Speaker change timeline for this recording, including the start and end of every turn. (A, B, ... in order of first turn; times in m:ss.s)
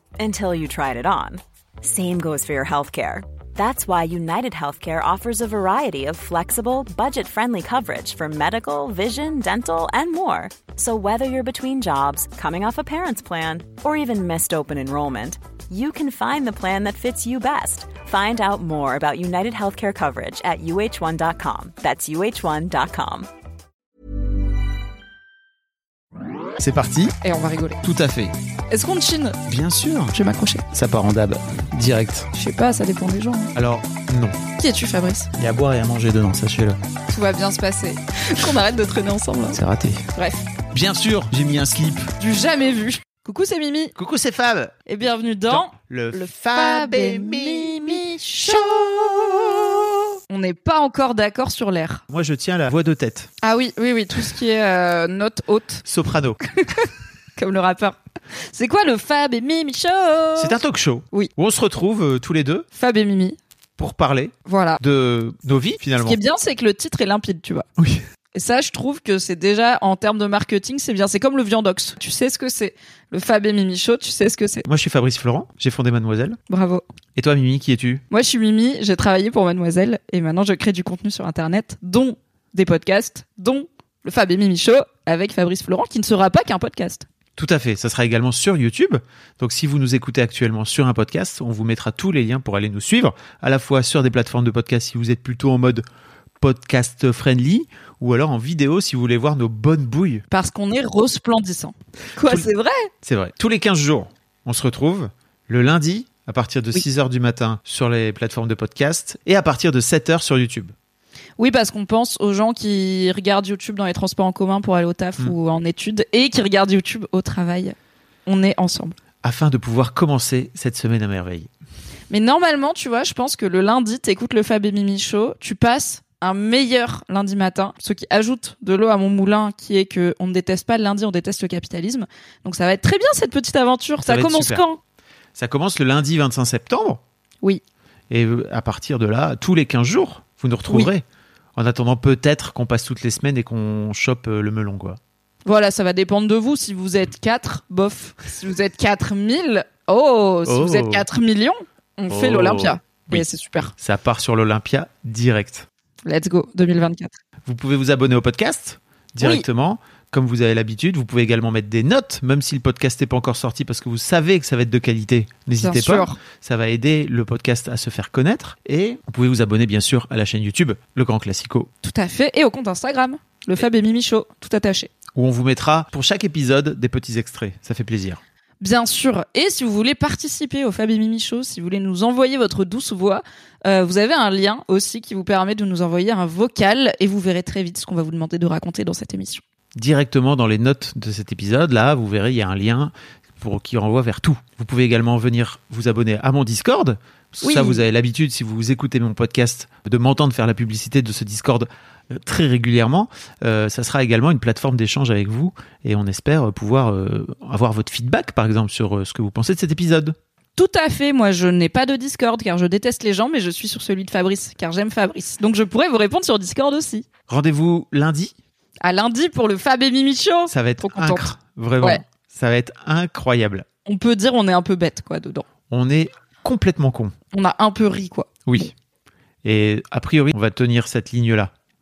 0:00.2-0:23.3 A
0:26.6-0:27.2 B
0:27.2-0:27.8 C
0:27.8-0:28.3 B
0:28.7-0:29.4 C
0:29.5-0:30.2 B
0:30.1-0:30.6 C
0:30.7-0:32.3 B
0:32.3-0:33.5 C
0:33.5-0:34.4 B
0:34.6-0:35.3 C
0:35.4-0:36.8 B
0:37.1-0:39.6 C
0:39.5-0:40.0 B
0:40.1-0:40.4 C
0:40.7-0:42.1 B
0:42.2-0:43.9 C
0:44.0-0:44.7 B
0:44.8-0:49.0 C
0:45.5-0:49.7 B
0:50.3-0:52.0 C
0:52.1-0:53.3 B
0:53.4-0:55.8 C
0:55.8-0:56.4 B
0:56.5-0:58.0 C
0:58.5-1:00.6 C
1:00.4-1:02.6 B
1:02.7-1:03.4 C
1:03.8-1:06.2 B
1:04.4-1:04.8 C
1:06.0-1:07.6 C
1:08.3-1:14.7 C
1:14.6-1:16.4 B
1:16.5-1:16.8 C
1:17.2-1:18.0 B
1:18.1-1:27.0 C
1:27.4-1:35.8 B
1:36.4-1:40.2 B
1:40.3-1:42.9 C
1:42.2-1:42.5 B
1:43.0-1:50.7 B
1:51.4-1:57.7 C
1:58.2-1:58.9 C
1:59.2-2:01.5 B
2:02.1-2:14.8 C
2:14.0-2:14.6 B
2:15.4-2:17.0 B
2:18.1-2:21.0 B
2:21.6-2:25.0 B
2:25.4-2:33.7 C
2:30.4-2:31.1 B
2:32.1-2:33.3 B
2:33.8-2:35.7 B
2:36.0-2:37.2 C
2:37.4-2:51.7 B
2:39.2-2:39.4 C
2:45.6-2:46.2 C
2:51.8-2:54.9 C
2:55.2-2:58.2 B
2:58.6-3:09.4 C
3:09.8-3:30.1 B
3:17.4-3:17.8 C
3:30.6-3:37.1 C
3:37.3-3:38.3 B
3:38.8-3:42.0 C
3:40.5-3:43.6 B
3:43.8-3:45.4 C
3:45.7-3:47.1 B
3:47.3-3:48.7 C
3:49.4-3:51.5 B